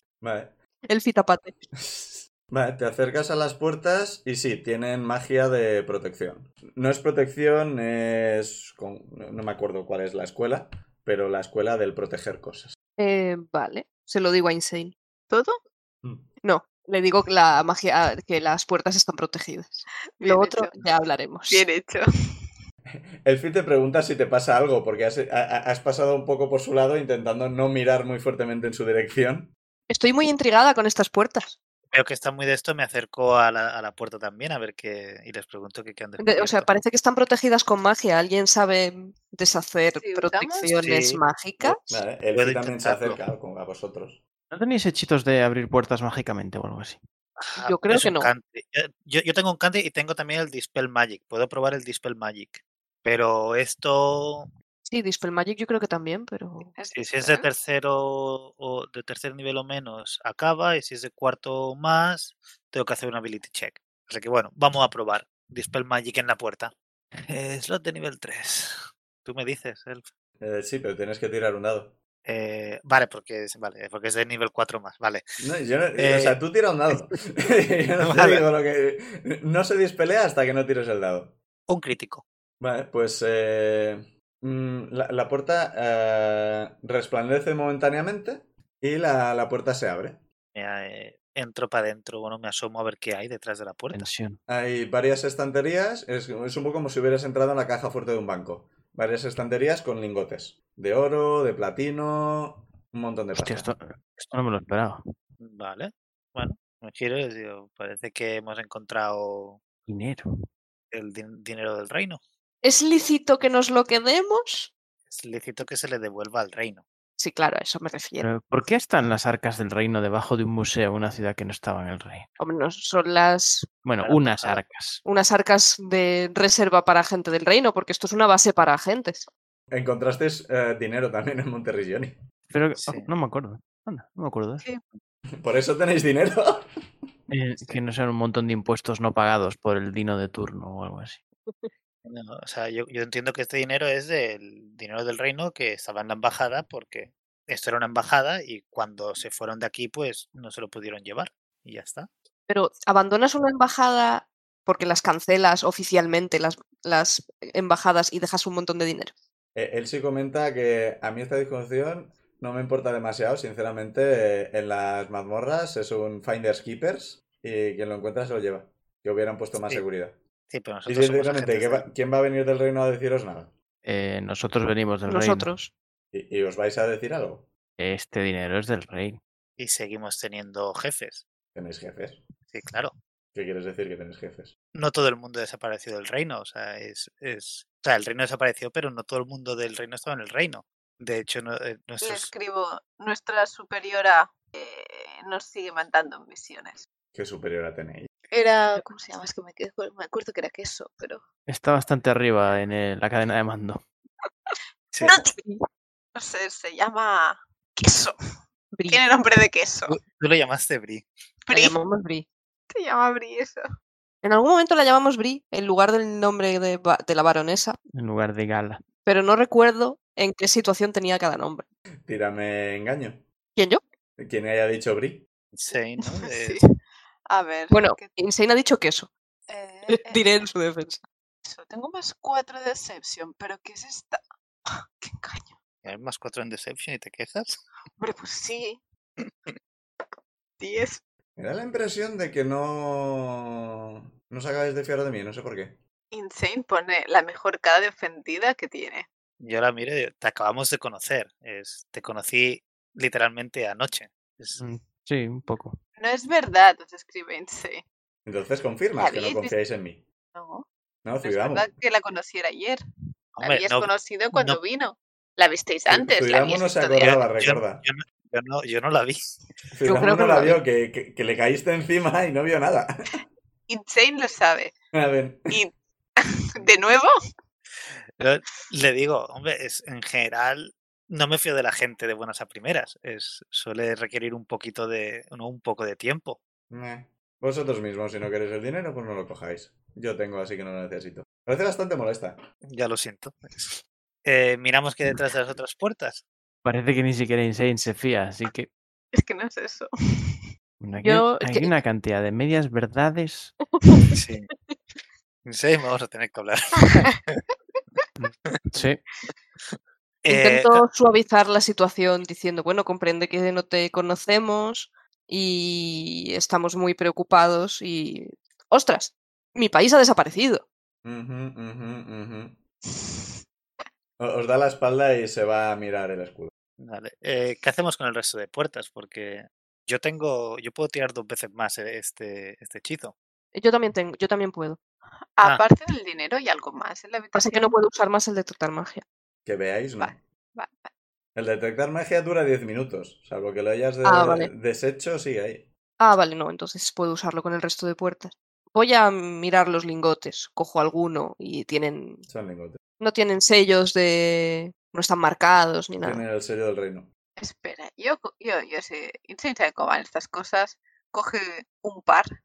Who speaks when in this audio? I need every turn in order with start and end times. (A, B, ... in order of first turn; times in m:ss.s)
0:00.2-0:00.5 A
0:00.9-0:01.5 B
0:01.7-0:12.7 A
0:13.0-0:14.9 B
0:15.3-0:15.6 C
0:16.4-0:21.6 B
0:20.2-0:20.9 C
0:21.5-0:22.0 C
0:22.9-0:29.5 A
0:29.9-0:31.6 B
0:31.9-0:36.7 D
0:36.2-0:41.8 B
0:40.0-0:40.7 C
0:40.6-0:43.2 D
0:41.9-0:44.2 A
0:44.5-0:47.0 E
0:47.4-0:54.5 D
0:47.6-0:48.3 B
0:54.9-0:56.7 B
0:56.7-0:57.5 C
0:56.9-1:06.7 D
1:07.2-1:10.1 D
1:10.4-1:12.0 A
1:12.2-1:15.2 D
1:15.4-1:21.4 A
1:16.0-1:16.4 D
1:18.0-1:18.4 D
1:21.7-1:22.2 D
1:22.6-1:30.2 A
1:30.5-1:34.1 D
1:33.9-1:34.4 E
1:34.5-1:43.7 A
1:43.3-1:45.0 E
1:45.4-1:49.6 D
1:49.9-1:50.3 E
1:50.9-1:52.2 D
1:52.6-1:54.7 B
1:55.1-1:56.8 D
1:57.2-1:58.3 B
1:58.2-2:02.3 E
2:02.4-2:03.7 B
2:03.8-2:05.0 E
2:04.0-2:04.6 D
2:05.0-2:09.3 B
2:09.7-2:12.2 A
2:12.5-2:14.6 E
2:12.8-2:13.1 D
2:15.4-2:16.6 A
2:17.3-2:21.2 E
2:22.0-2:32.1 D
2:32.5-2:39.1 B
2:39.5-2:50.2 A
2:49.6-2:49.8 D
2:50.5-2:51.9 D
2:50.9-2:53.5 A
2:53.8-2:55.5 E
2:55.1-2:55.7 B
2:56.1-2:57.5 A
2:57.8-2:59.2 E
2:59.6-3:01.2 D
3:01.5-3:02.2 A
3:02.5-3:02.9 D
3:03.3-3:04.5 A
3:04.7-3:12.3 D
3:12.0-3:16.9 C
3:17.1-3:18.1 A
3:18.3-3:21.2 C
3:21.5-3:23.8 E
3:24.9-3:25.2 D
3:25.0-3:25.6 C
3:26.1-3:28.1 C
3:28.7-3:29.0 B
3:28.9-3:30.0 C
3:29.9-3:31.1 D
3:31.5-3:31.8 C
3:31.5-3:32.2 B
3:32.7-3:33.6 C
3:34.2-3:37.8 B
3:37.9-3:38.8 E
3:39.0-3:41.6 B
3:42.0-3:43.2 A
3:44.2-3:45.2 A
3:45.5-3:46.6 D
3:46.0-3:46.6 C
3:47.2-3:48.1 C
3:47.7-3:49.1 B
3:49.5-3:50.3 C
3:49.9-3:51.0 B
3:51.4-3:55.5 C
3:55.8-3:57.6 D
3:58.0-3:58.8 C
3:59.2-3:59.5 D
4:00.6-4:01.0 C
4:01.4-4:05.8 A
4:06.1-4:09.0 C
4:09.4-4:14.6 D
4:14.6-4:15.8 E
4:16.0-4:17.8 C
4:18.2-4:20.0 A
4:19.0-4:19.5 C
4:20.3-4:20.6 C
4:21.0-4:21.7 A
4:21.2-4:22.8 C
4:23.4-4:24.6 D
4:23.4-4:27.1 C
4:25.9-4:27.8 A
4:27.0-4:29.4 D
4:29.7-4:32.9 A
4:29.8-4:30.6 B
4:33.7-4:34.8 C
4:34.9-4:35.6 A
4:35.5-4:37.1 C
4:37.8-4:46.4 D
4:46.7-4:52.4 A
4:52.7-4:56.2 D
4:56.6-4:58.7 E
4:59.1-5:00.4 C
5:00.8-5:03.5 E
5:01.0-5:01.7 B
5:03.8-5:04.2 B
5:04.1-5:04.5 D
5:05.4-5:07.4 D
5:06.9-5:07.2 C
5:08.2-5:09.0 E
5:09.7-5:10.8 D
5:10.3-5:20.6 B
5:21.0-5:22.6 A
5:22.9-5:23.2 C
5:24.2-5:26.5 A
5:26.8-5:33.2 D
5:33.5-5:34.8 B
5:35.4-5:37.7 C
5:37.3-5:39.0 B
5:39.4-5:40.2 A
5:40.0-5:40.9 C
5:41.4-5:45.7 A
5:44.0-5:44.5 B
5:46.0-5:52.2 B
5:52.3-5:52.8 A
5:53.0-5:56.2 B
5:56.0-5:57.1 A
5:57.4-6:02.3 C